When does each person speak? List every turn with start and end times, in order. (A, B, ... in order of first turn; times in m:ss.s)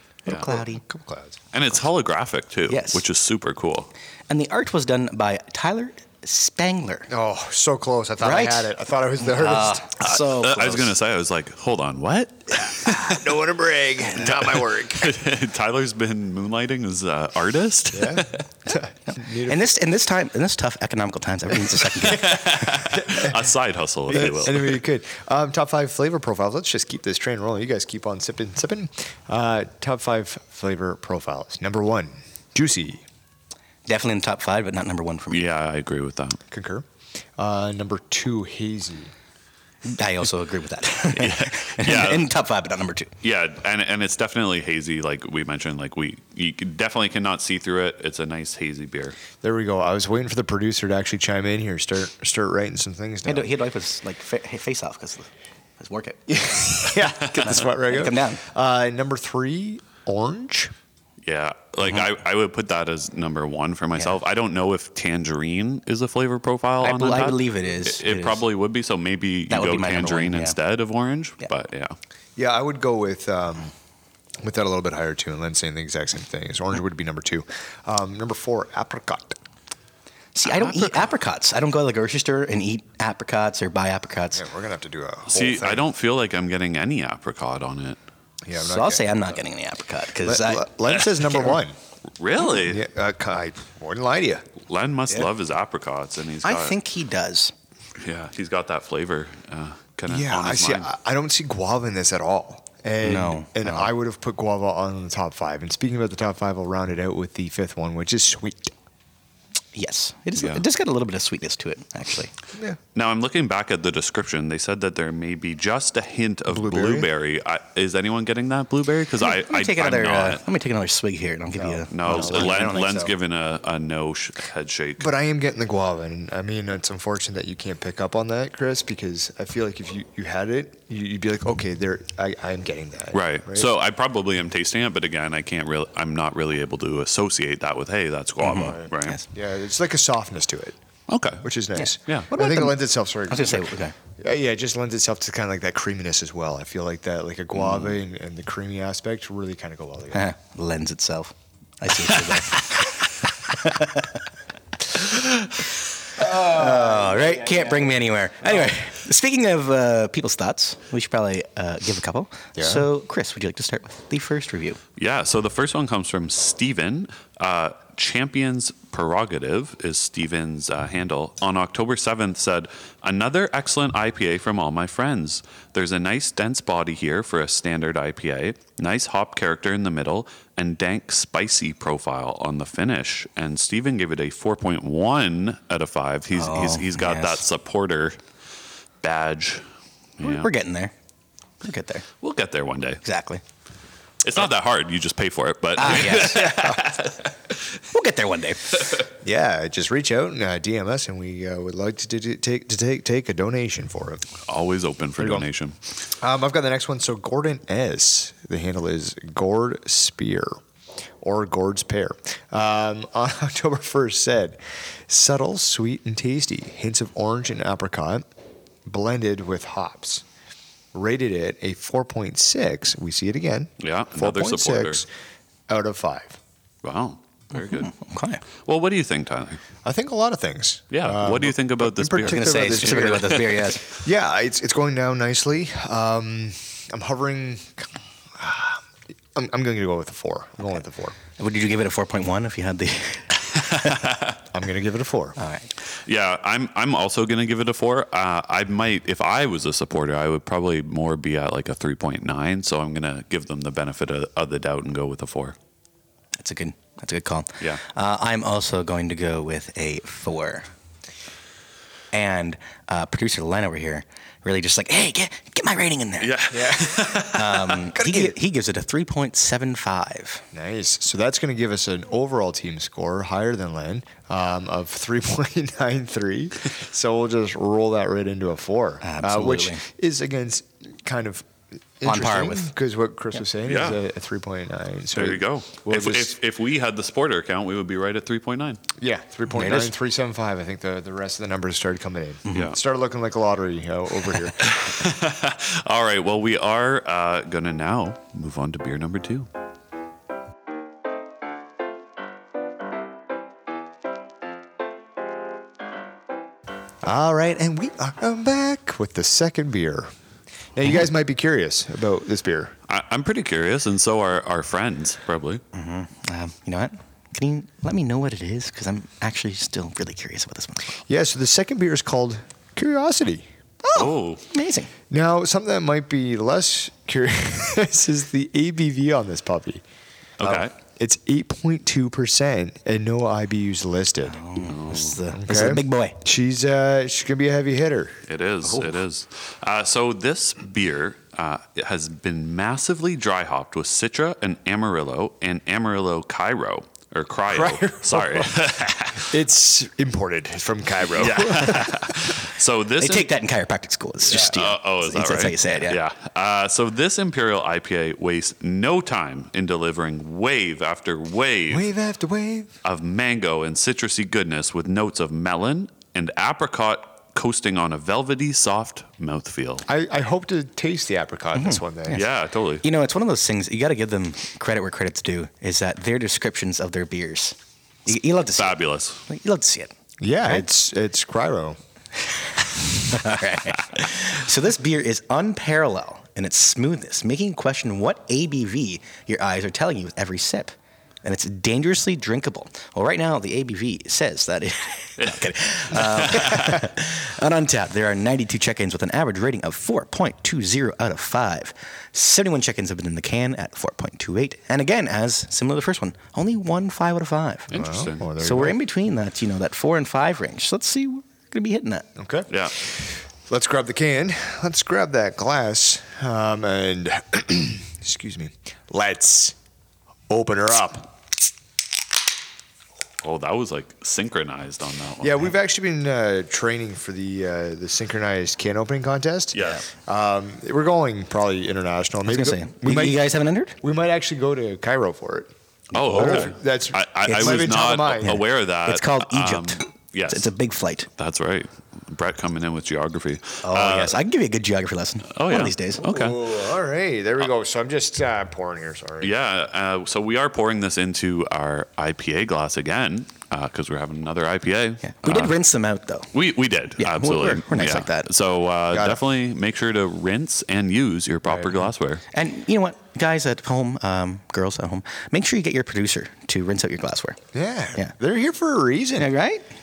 0:00.3-0:00.8 A
0:00.3-0:01.4 B
0:01.5-0:03.9 C
0:02.7-0:03.0 A
0:04.3-0:07.1 A
0:07.1-0:09.9 B
0:08.2-0:08.7 A
0:09.2-0:10.9 A
0:10.0-0:13.3 C
0:12.6-0:15.2 B
0:14.2-0:18.4 C
0:17.9-0:19.7 B
0:19.1-0:22.9 A
0:22.0-0:24.8 C
0:22.3-0:23.4 B
0:24.1-0:33.0 B
0:33.9-0:35.4 A
0:35.3-0:36.4 C
0:36.5-0:36.8 B
0:37.4-0:39.1 B
0:39.8-0:43.1 A
0:41.1-0:42.3 C
0:43.2-0:49.2 C
0:49.4-0:53.5 B
0:53.2-0:56.3 A
0:56.3-1:00.7 B
0:56.9-0:58.4 A
0:57.2-0:57.6 C
1:01.2-1:12.0 C
1:06.8-1:08.4 A
1:09.5-1:10.6 A
1:12.4-1:13.7 B
1:14.4-1:19.4 B
1:20.3-1:24.4 A
1:20.4-1:21.1 C
1:24.3-1:25.9 B
1:25.3-1:28.0 C
1:28.4-1:29.4 B
1:28.5-1:31.4 A
1:30.2-1:31.8 B
1:32.2-1:32.8 C
1:32.4-1:34.5 B
1:34.7-1:36.8 C
1:36.4-1:37.5 A
1:38.0-1:40.9 C
1:40.1-1:48.7 B
1:43.0-1:43.9 A
1:49.7-1:52.3 A
1:50.4-1:50.6 C
1:52.9-2:00.4 C
1:56.5-1:57.1 B
1:59.2-2:03.1 A
2:01.5-2:02.8 B
2:01.9-2:05.1 C
2:05.0-2:13.7 B
2:13.1-2:19.2 C
2:18.4-2:19.2 A
2:18.6-2:20.8 B
2:21.1-2:21.4 C
2:21.4-2:30.3 B
2:21.8-2:23.9 A
2:30.1-2:34.2 A
2:35.0-2:35.5 C
2:36.2-2:44.8 A
2:36.3-2:37.6 B
2:42.6-2:42.9 B
2:45.0-3:08.2 C
3:06.3-3:07.4 A
3:09.0-3:09.6 C
3:10.2-3:10.5 C
3:10.2-3:10.9 A
3:11.6-3:12.0 A
3:12.2-3:13.0 C
3:13.0-3:13.4 A
3:14.2-3:17.6 C
3:15.8-3:16.7 A
3:16.1-3:16.9 B
3:17.9-3:19.0 A
3:19.2-3:24.3 B
3:24.5-3:25.8 C
3:25.2-3:25.5 B
3:26.2-3:30.6 B
3:31.2-3:38.2 B
3:38.8-3:40.2 B
3:40.9-3:45.1 B
3:43.8-3:45.0 C
3:45.7-3:46.4 B
3:46.8-3:47.9 C
3:47.5-3:48.4 A
3:48.6-3:49.6 C
3:49.8-3:58.8 B
3:50.9-3:53.6 C
3:52.2-3:53.8 A
3:59.3-4:01.2 B
4:01.4-4:04.0 A
4:03.7-4:04.4 C
4:04.5-4:05.4 B
4:05.4-4:05.7 A
4:06.0-4:15.6 C
4:16.4-4:20.7 A
4:22.1-4:26.4 A
4:26.2-4:27.8 C
4:26.5-4:27.2 B
4:27.2-4:30.4 A
4:27.9-4:28.3 B
4:30.5-4:41.5 B
4:39.0-4:39.8 A
4:42.0-4:46.4 B
4:42.0-4:42.7 A
4:43.6-4:44.0 C
4:45.1-4:48.8 C
4:49.0-4:54.7 B
4:49.5-4:49.9 A
4:52.5-4:52.7 A
4:52.5-4:52.8 C
4:54.6-4:59.5 C
5:07.0-5:10.1 B
5:10.7-5:12.8 B
5:12.9-5:15.6 C
5:15.7-5:21.0 A
5:21.0-5:23.5 B
5:23.8-5:24.9 A
5:23.9-5:24.4 C
5:25.1-5:29.8 B
5:30.4-5:30.7 C
5:30.8-5:34.4 B
5:34.2-5:36.2 A
5:34.6-5:35.2 C
5:35.4-5:38.2 B
5:38.3-5:49.4 C
5:38.6-5:38.9 A
5:47.5-5:48.5 B
5:49.2-5:52.2 B
5:51.1-5:53.3 C
5:53.0-5:56.0 A
5:54.3-6:01.9 C
6:01.7-6:02.7 B
6:02.8-6:09.9 C
6:09.9-6:12.2 B
6:11.5-6:12.3 A
6:12.1-6:12.8 C
6:12.8-6:19.9 A
6:18.5-6:19.2 C
6:20.2-6:21.8 B
6:23.0-6:47.7 A
6:35.2-6:36.8 C
6:47.7-6:48.3 C
6:47.7-6:48.8 B
6:48.4-6:52.0 A
6:52.2-6:59.6 B
6:52.5-6:52.7 C
7:00.3-7:01.2 B
7:03.2-7:05.5 C
7:05.2-7:13.3 B
7:09.5-7:09.8 C
7:12.2-7:13.8 A
7:13.8-7:18.4 B
7:15.9-7:20.5 C
7:16.0-7:16.5 A
7:17.2-7:21.1 A
7:21.1-7:24.2 C
7:23.6-7:26.0 A
7:25.3-7:26.5 C
7:26.0-7:29.3 B
7:29.2-7:35.6 C
7:35.0-7:36.3 A
7:36.3-7:42.2 C
7:37.0-7:38.3 A
7:38.9-7:39.2 B
7:41.4-7:41.8 B
7:42.3-7:47.4 A
7:47.5-7:49.3 B
7:49.2-7:49.6 A